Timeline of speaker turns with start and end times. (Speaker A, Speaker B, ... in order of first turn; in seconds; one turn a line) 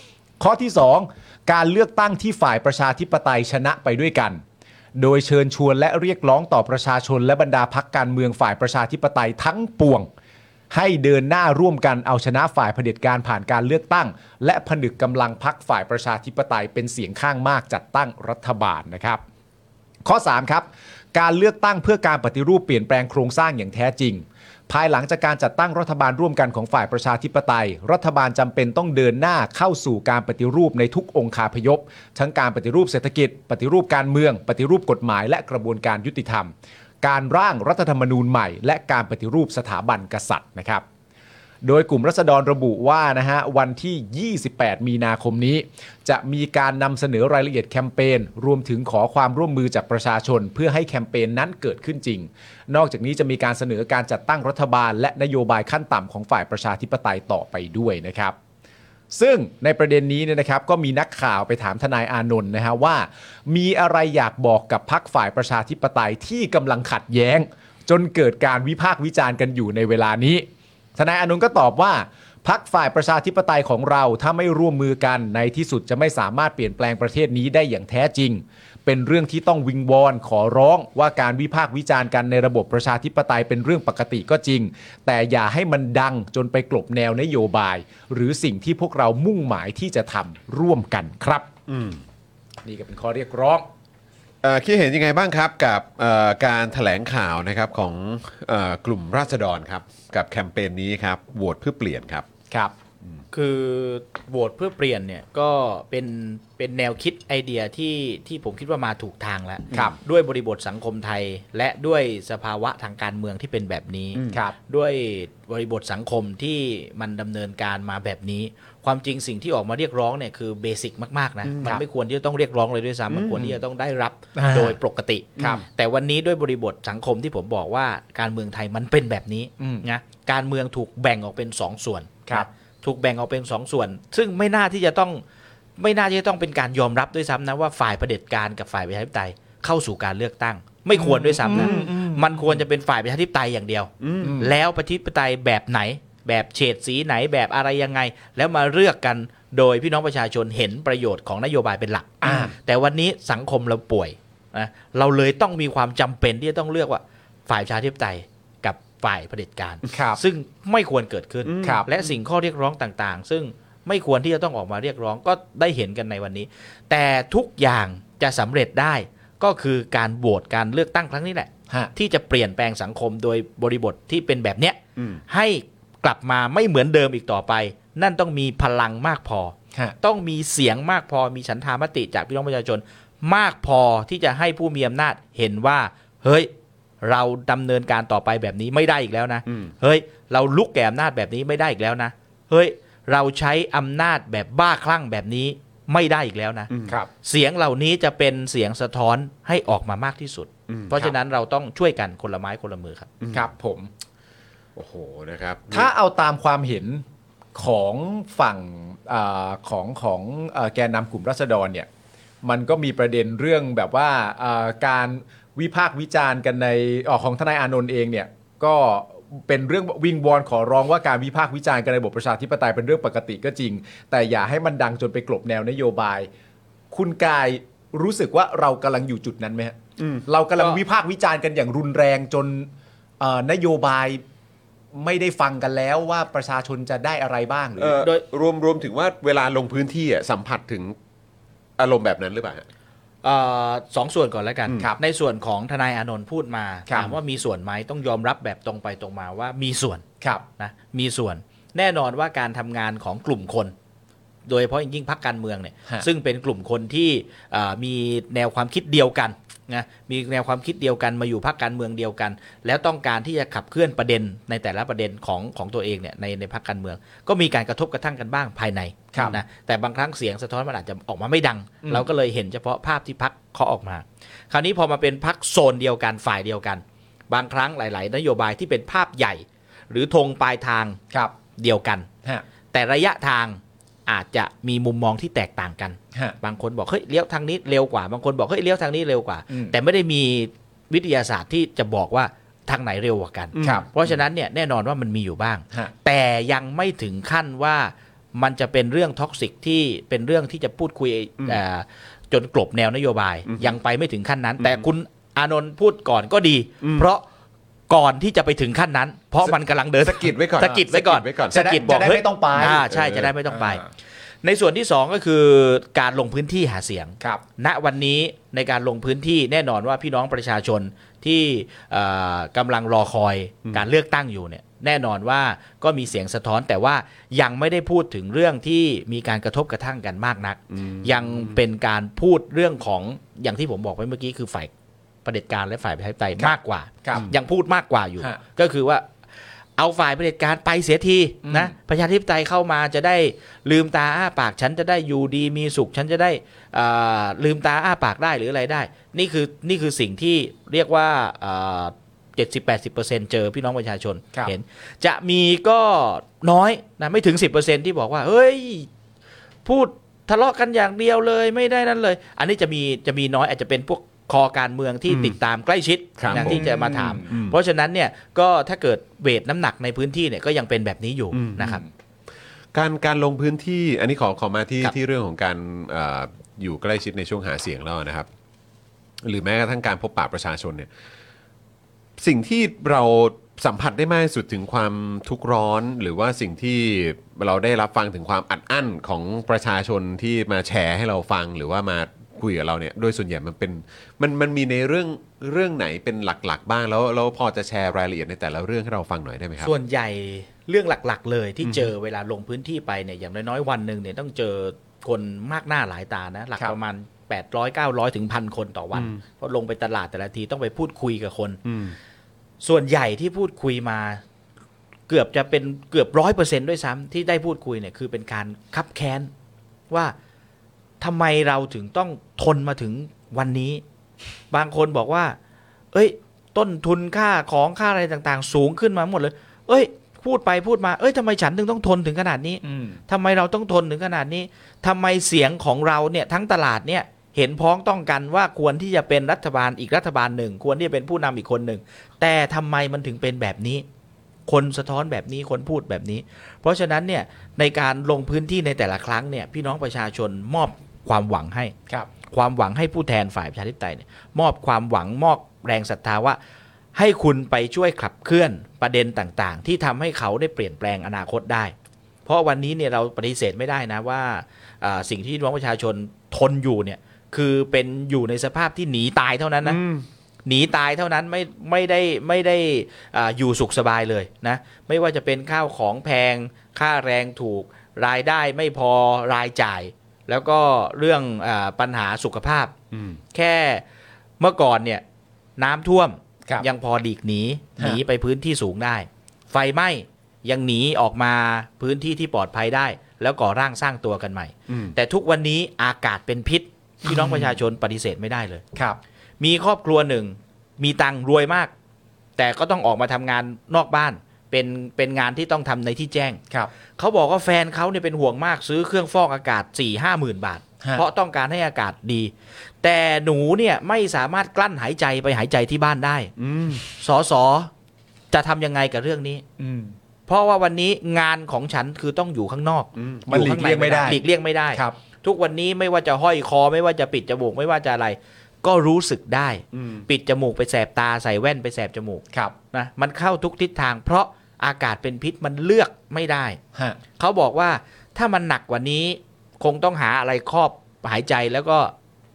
Speaker A: 0.4-4.4
Speaker A: 5.0-10.1
Speaker A: 10.7-19.2
Speaker A: 20.1-40.8
Speaker A: 41.6-58.4
Speaker A: 59.1-70.5
Speaker A: 71.0-91.5
Speaker B: 91.7-92.0
Speaker A: 92.6-93.7
Speaker B: 94.4-102.3
Speaker C: 103.3-135.2
Speaker A: 109.7-110.0
Speaker A: 114.3-114.5
Speaker B: 123.1-123.5
Speaker A: 124.3-124.8
Speaker A: 125.4-125.6
Speaker A: 129.6-129.8
Speaker C: 135.8-186.5
Speaker A: 140.9-142.4
Speaker B: 141.5-141.9
Speaker B: 144.0-144.4
Speaker A: 144.2-144.5
Speaker A: 152.2-152.5
Speaker A: 159.9-160.2
Speaker B: 161.5-161.9
Speaker A: 161.6-161.9
Speaker C: 187.0-196.7
Speaker C: 197.2-203.1
Speaker B: 200.7-200.9
Speaker B: 203.2-203.5
Speaker A: 203.3-203.9
Speaker B: 204.8-205.9
Speaker A: 205.7-207.0
Speaker A: 207.6-211.9
Speaker A: 212.4-226.3
Speaker A: 226.9-229.8
Speaker B: 230.0-230.2
Speaker A: 230.3-232.7
Speaker A: 233.2-234.2
Speaker A: 234.9-238.0
Speaker B: 237.8-241.0
Speaker B: 241.8-242.7
Speaker C: 243.2-250.0
Speaker A: 246.9-247.1
Speaker C: 250.6-253.7
Speaker C: 254.5-281.0
Speaker A: 269.1-269.4
Speaker C: 281.6-282.1
Speaker C: 282.7-307.2
Speaker A: 289.5-289.8
Speaker B: 293.6-293.8
Speaker A: 293.6-293.9
Speaker B: 303.5-303.8
Speaker B: 306.8-307.1
Speaker C: 307.9-313.9
Speaker B: 309.5-312.1
Speaker A: 311.5-312.9
Speaker B: 312.6-313.3
Speaker A: 313.5-313.8
Speaker C: 314.4-334.7
Speaker B: 330.8-331.5
Speaker C: 335.2-339.1
Speaker A: 336.4-337.3
Speaker C: 339.8-358.9
Speaker A: 341.4-341.7
Speaker C: 359.6-371.8
Speaker B: 365.1-365.4
Speaker B: 366.2-366.6
Speaker A: 366.3-367.3
Speaker B: 367.3-367.6
Speaker B: 371.3-371.8
Speaker A: 371.6-371.8
Speaker B: 372.7-378.3
Speaker B: 379.2-380.9
Speaker B: 382.2-399.7
Speaker C: 399.6-411.6
Speaker B: 401.6-401.9
Speaker B: 408.9-409.2
Speaker B: 411.6-411.9
Speaker C: 412.6-414.2
Speaker C: 415.1-419.3
Speaker C: 419.9-420.1
Speaker C: 421.0-423.8
Speaker C: 424.5-425.4
Speaker C: 425.9-443.9
Speaker A: 432.6-433.0
Speaker C: 444.5-451.8
Speaker C: 452.3-456.4
Speaker C: 456.9-461.7
Speaker C: 462.3-469.8
Speaker B: 469.6-470.1
Speaker C: 470.5-482.7
Speaker B: 482.9-483.2
Speaker C: 483.3-483.8
Speaker C: 484.4-485.0
Speaker C: 485.6-498.6
Speaker B: 494.7-494.9
Speaker A: 497.1-497.6
Speaker C: 499.4-501.7
Speaker C: 502.4-506.4
Speaker C: 507.0-516.3
Speaker B: 516.4-516.8
Speaker C: 516.9-517.7
Speaker C: 518.3-519.4
Speaker A: 519.6-520.0
Speaker C: 520.3-536.6
Speaker B: 523.0-523.3
Speaker A: 523.3-524.2
Speaker B: 529.7-530.1
Speaker C: 537.2-541.9